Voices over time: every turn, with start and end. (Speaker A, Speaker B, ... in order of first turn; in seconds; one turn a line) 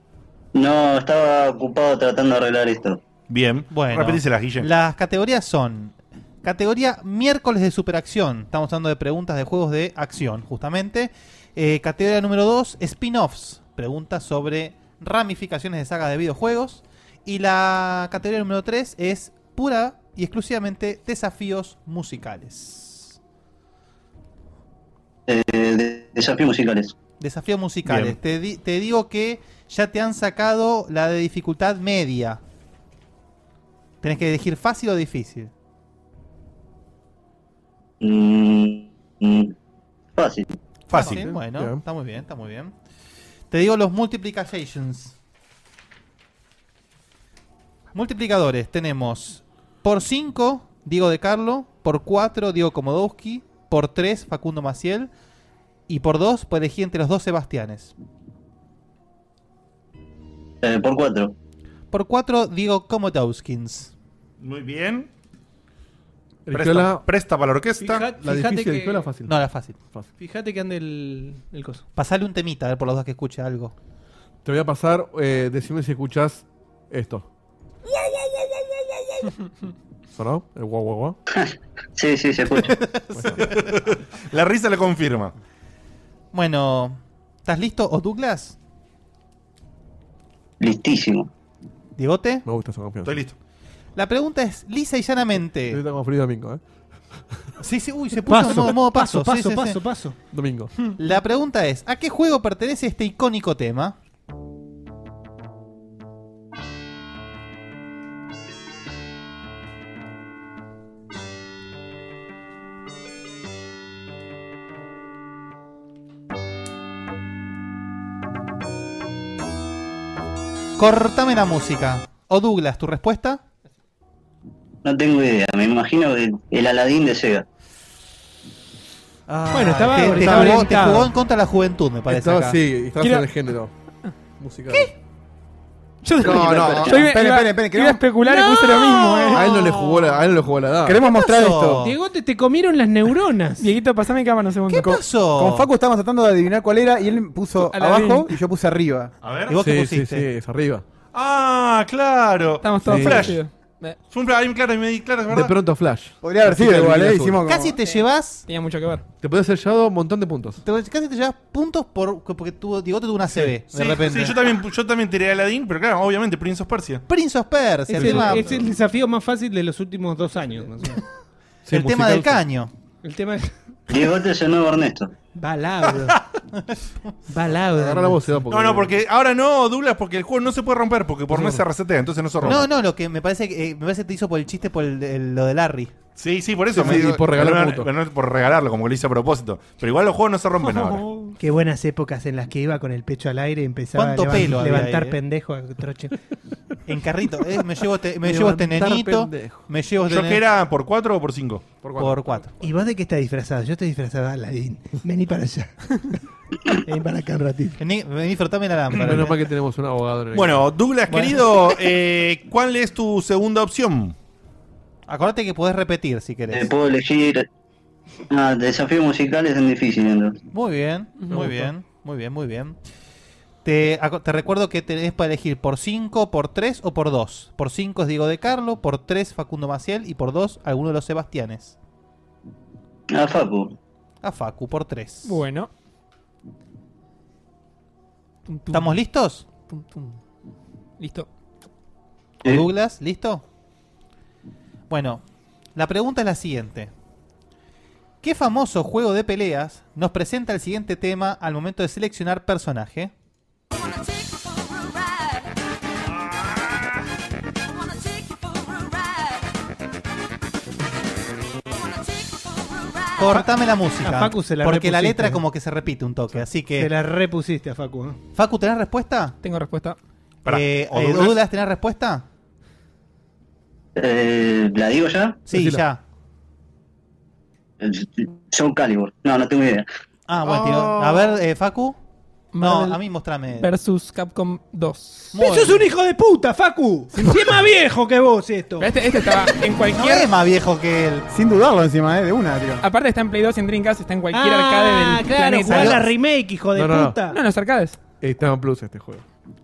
Speaker A: 0.5-3.0
Speaker B: 3.3-4.7
Speaker C: 3.7-23.2
Speaker A: 25.3-26.9
Speaker C: 27.2-32.4
Speaker B: 27.8-28.2
Speaker C: 34.0-35.5
Speaker A: 38.0-39.5
Speaker A: 40.2-40.5
Speaker C: 40.9-42.7
Speaker B: 40.9-41.4
Speaker D: 41.1-41.8
Speaker C: 43.5-45.1
Speaker C: 47.9-55.1
Speaker C: 55.9-57.9
Speaker A: 60.6-61.3
Speaker C: 61.9-63.9
Speaker B: 64.4-65.1
Speaker D: 66.5-67.0
Speaker B: 66.5-68.1
Speaker E: 67.8-69.1
Speaker D: 68.2-70.1
Speaker C: 69.2-69.8
Speaker E: 70.2-71.8
Speaker C: 71.9-73.7
Speaker D: 74.4-77.3
Speaker D: 80.1-81.2
Speaker A: 81.3-82.8
Speaker C: 83.1-83.4
Speaker D: 83.1-83.4
Speaker B: 83.3-85.3
Speaker C: 86.3-88.6
Speaker A: 90.6-91.3
Speaker C: 92.0-92.4
Speaker D: 92.4-93.2
Speaker B: 93.0-93.3
Speaker C: 94.0-95.8
Speaker D: 95.7-96.6
Speaker C: 97.6-99.8
Speaker E: 98.3-100.2
Speaker D: 100.3-100.7
Speaker C: 100.9-104.0
Speaker C: 120.8-123.4
Speaker A: 124.8-127.5
Speaker C: 129.3-132.6
Speaker E: 129.5-131.1
Speaker D: 130.2-130.6
Speaker D: 132.1-133.7
Speaker F: 133.0-133.3
Speaker D: 134.3-134.9
Speaker F: 136.0-139.7
Speaker G: 136.2-139.7
Speaker D: 136.2-137.0
Speaker A: 136.3-137.0
Speaker D: 139.3-141.0
Speaker G: 140.8-141.8
Speaker C: 141.0-141.9
Speaker E: 141.8-143.7
Speaker F: 143.6-145.0
Speaker C: 144.7-145.7
Speaker G: 145.3-149.1
Speaker F: 147.6-148.4
Speaker B: 149.2-149.6
Speaker C: 149.5-150.3
Speaker D: 149.5-150.8
Speaker B: 151.1-153.4
Speaker F: 152.6-154.0
Speaker D: 152.8-153.4
Speaker B: 154.1-155.6
Speaker D: 155.3-157.4
Speaker G: 156.2-157.8
Speaker C: 157.4-158.4
Speaker F: 158.4-159.0
Speaker D: 159.2-160.6
Speaker C: 160.6-164.4
Speaker B: 163.7-167.0
Speaker C: 167.1-168.6
Speaker E: 167.9-171.0
Speaker D: 167.9-168.4
Speaker D: 171.7-172.4
Speaker C: 171.7-172.7
Speaker E: 173.0-173.5
Speaker A: 173.9-175.1
Speaker E: 175.3-176.2
Speaker C: 176.5-177.2
Speaker E: 177.3-178.3
Speaker D: 177.7-178.9
Speaker B: 178.5-182.7
Speaker D: 181.3-181.7
Speaker C: 182.4-185.9
Speaker B: 186.2-191.1
Speaker D: 186.7-187.9
Speaker E: 191.4-196.1
Speaker C: 193.9-195.2
Speaker C: 196.8-200.4
Speaker D: 198.2-199.6
Speaker B: 200.1-201.7
Speaker D: 201.8-202.4
Speaker C: 202.0-202.6
Speaker E: 202.6-206.0
Speaker E: 206.8-207.8
Speaker C: 207.8-209.4
Speaker D: 208.9-210.7
Speaker B: 210.3-214.1
Speaker C: 211.1-211.5
Speaker C: 215.1-216.7
Speaker A: 216.5-217.5
Speaker A: 218.3-220.4
Speaker C: 220.5-222.8
Speaker C: 223.6-231.8
Speaker A: 233.1-233.8
Speaker C: 234.2-235.4
Speaker F: 235.2-235.7
Speaker F: 238.5-240.1
Speaker C: 238.7-239.5
Speaker F: 241.0-241.3
Speaker C: 242.4-243.4
Speaker C: 244.9-246.9
Speaker C: 248.2-253.1
Speaker C: 263.2-266.9
Speaker E: 263.2-263.5
Speaker E: 264.0-265.4
Speaker E: 266.7-268.2
Speaker C: 268.3-269.4
Speaker F: 269.4-269.9
Speaker B: 270.4-271.4
Speaker C: 270.4-272.2
Speaker A: 273.9-275.4
Speaker C: 275.5-276.0
Speaker D: 275.5-275.8
Speaker A: 277.8-279.9
Speaker C: 280.3-282.0
Speaker D: 280.4-281.3
Speaker F: 282.5-283.0
Speaker C: 282.6-283.7
Speaker F: 283.6-285.4
Speaker C: 285.3-285.9
Speaker E: 285.3-288.9
Speaker F: 288.8-290.3
Speaker C: 289.9-291.3
Speaker G: 291.3-292.8
Speaker F: 292.8-296.1
Speaker E: 294.3-297.4
Speaker C: 295.7-296.0
Speaker D: 296.7-297.2
Speaker F: 297.3-298.0
Speaker D: 298.2-299.2